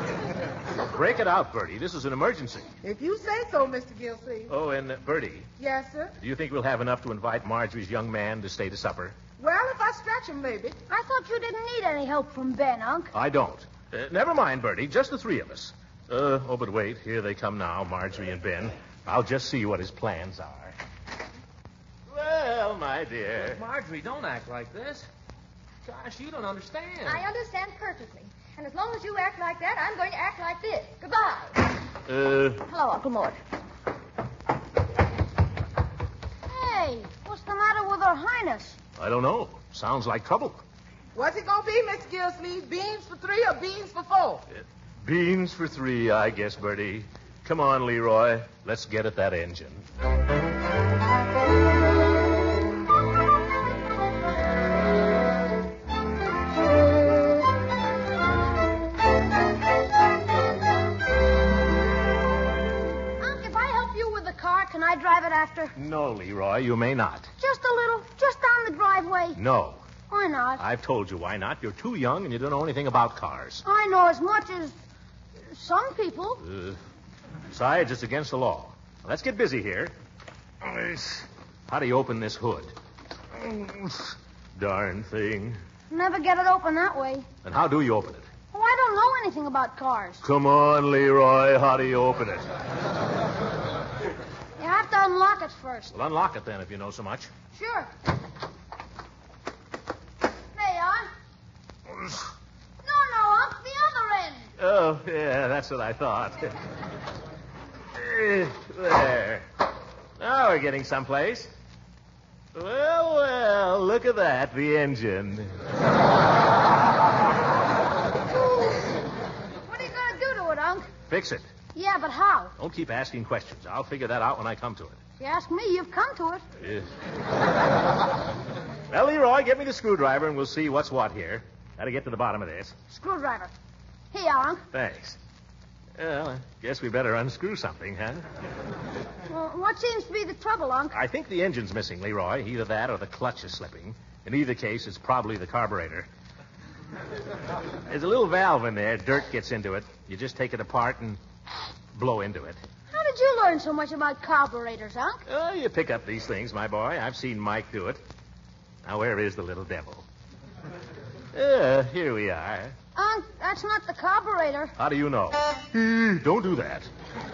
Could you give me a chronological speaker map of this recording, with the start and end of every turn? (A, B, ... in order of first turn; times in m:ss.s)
0:00.8-0:02.7 A
0:02.8-0:04.5 B
0:04.5-0:05.5 A
0:05.6-0:06.1 B
0:06.2-0:09.2 A
0:09.4-0:10.8 B
0:10.9-0:13.1 C
0:13.1-0:20.8 A
0:22.1-0:23.6 A
0:23.4-0:25.1 D
0:25.8-0:27.2 D
0:27.0-0:31.5 E
0:32.1-0:32.6 A
0:32.7-0:33.4 E
0:36.5-0:38.8 C
0:39.0-0:40.6 A
0:41.1-0:44.4 B
0:45.0-0:49.8 A
1:03.2-1:05.7 C
1:05.8-1:07.3 A
1:07.4-1:09.4 C
1:09.4-1:09.8 A
1:10.1-1:10.6 C
1:10.6-1:13.6 A
1:13.6-1:14.7 C
1:15.5-1:16.4 C
1:16.4-1:16.8 A
1:17.5-1:19.9 A
1:20.6-1:22.7 A
1:23.4-1:25.6 A
1:25.9-1:27.2 C
1:27.4-1:28.3 A
1:28.5-1:30.2 C
1:30.2-1:32.4 A
1:34.6-1:35.9 C
1:35.9-1:37.3 A
1:37.5-1:37.9 C
1:40.5-1:41.1 C
1:42.8-1:44.4 C
1:44.6-1:46.5 A
1:47.9-1:49.4 A
1:50.2-1:51.5 A
1:52.5-1:55.5 A
1:59.6-2:00.9 C
2:01.1-2:01.5 A
2:01.7-2:02.5 C
2:02.6-2:05.0 A
2:05.2-2:06.4 C
2:06.6-2:06.9 A
2:08.9-2:12.8 A
2:12.9-2:13.5 C
2:14.1-2:14.6 C
2:14.7-2:15.2 A
2:16.0-2:18.2 A
2:19.3-2:21.0 C
2:20.9-2:26.1 A
2:27.9-2:31.2 A
2:31.9-2:32.6 A
2:32.9-2:35.2 C
2:35.3-2:38.0 A
2:38.8-2:40.0 A
2:41.3-2:42.7 A
2:42.9-2:44.7 C
2:44.8-2:46.9 A